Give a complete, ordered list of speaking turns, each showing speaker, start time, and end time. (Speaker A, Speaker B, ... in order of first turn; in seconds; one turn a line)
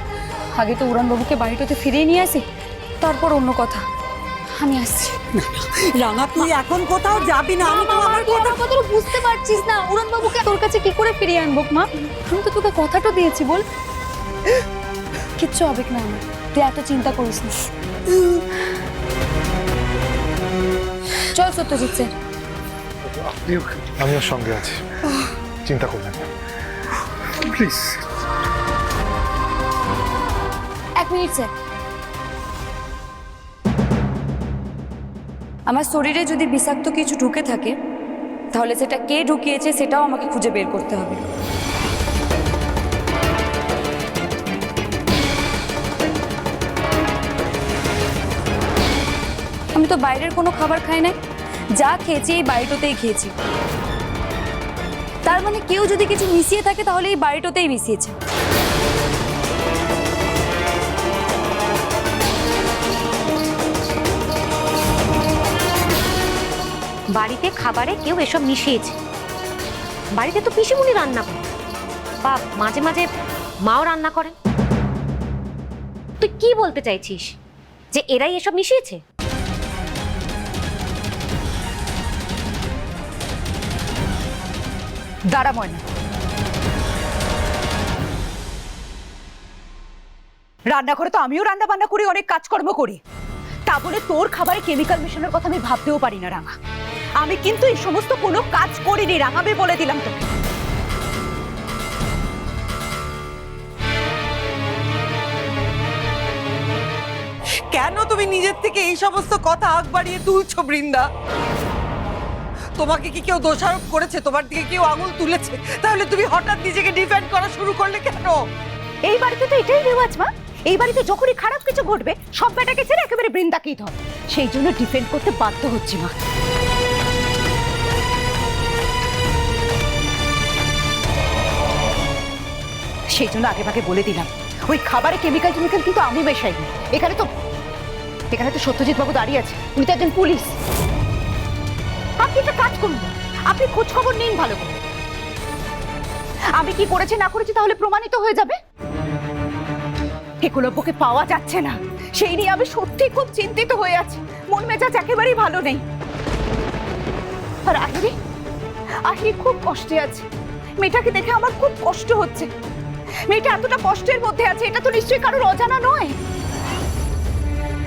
Speaker A: 0.5-2.4
Speaker A: 3.0-3.8
Speaker A: 4.5-5.5
Speaker B: 6.0-8.6
Speaker A: 7.6-13.6
Speaker A: 15.4-17.6
Speaker A: 21.3-22.1
Speaker C: 23.3-24.8
Speaker C: 25.6-26.3
Speaker C: 27.5-27.9
Speaker A: 31.0-31.5
Speaker A: 35.7-37.8
Speaker A: 38.5-41.2
Speaker A: 49.7-51.2
Speaker A: 51.8-53.3
Speaker A: 55.3-58.1
Speaker D: 67.1-69.0
Speaker D: 70.2-71.5
Speaker D: 72.2-73.1
Speaker D: 73.6-74.3
Speaker D: 76.2-77.3
Speaker D: 77.9-79.0
Speaker E: 85.3-85.8
Speaker E: 90.7-93.0
Speaker E: 93.7-96.5
Speaker E: 97.2-100.3
Speaker B: 107.7-111.1
Speaker B: 112.8-118.4
Speaker E: 119.1-126.1
Speaker E: 133.1-137.3
Speaker E: 138.3-140.5
Speaker E: 142.2-144.7
Speaker E: 146.6-148.6
Speaker E: 150.4-155.8
Speaker E: 157.7-158.1
Speaker E: 159.1-160.2
Speaker E: 160.8-162.5
Speaker E: 163.3-166.2